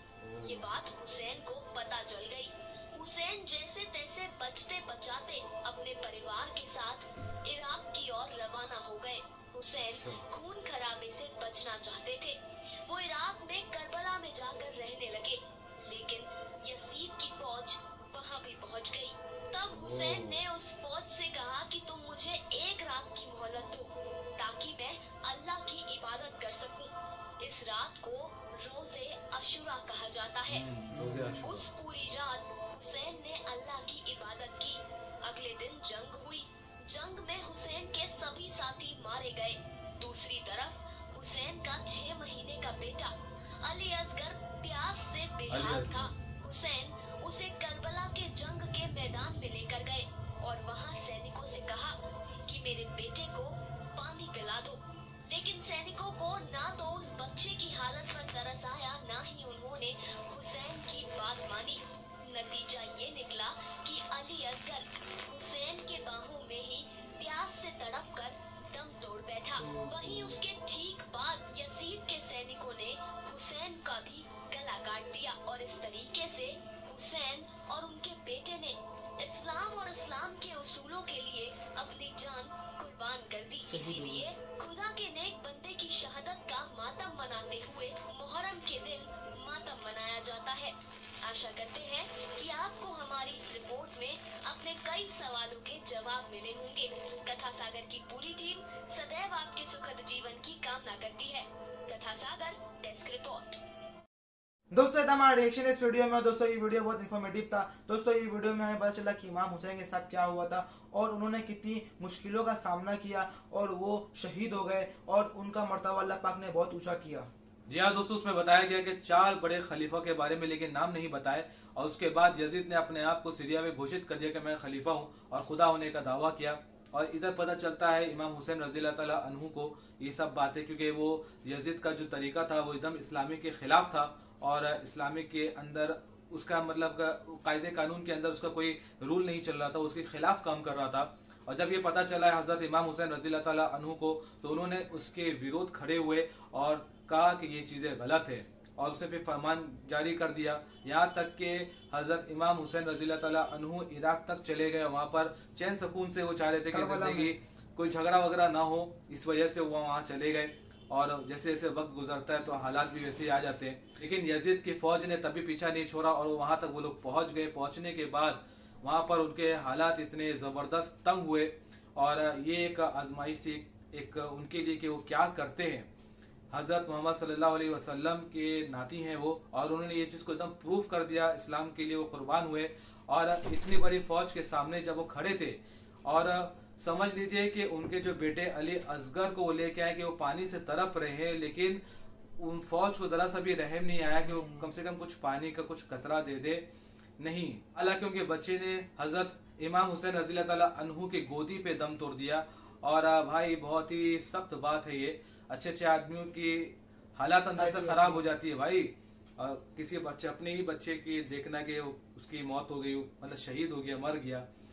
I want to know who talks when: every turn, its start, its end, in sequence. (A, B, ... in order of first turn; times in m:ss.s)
0:00.2-0:00.7 A
0:00.4-0:30.6 B
0:09.9-0:10.2 A
0:19.7-0:20.4 A
0:30.5-0:31.7 A
0:30.9-0:31.5 C
0:31.4-0:51.9 B
0:45.5-0:46.1 A
0:52.4-1:43.6 B
1:09.7-1:10.3 C
1:23.6-1:24.2 C
1:44.7-1:57.3 C
1:57.7-2:55.9 A
2:36.7-2:37.3 C
2:56.5-3:11.8 A
3:12.4-3:16.6 A
3:14.2-3:14.7 C
3:17.2-3:34.4 A
3:27.6-3:28.3 C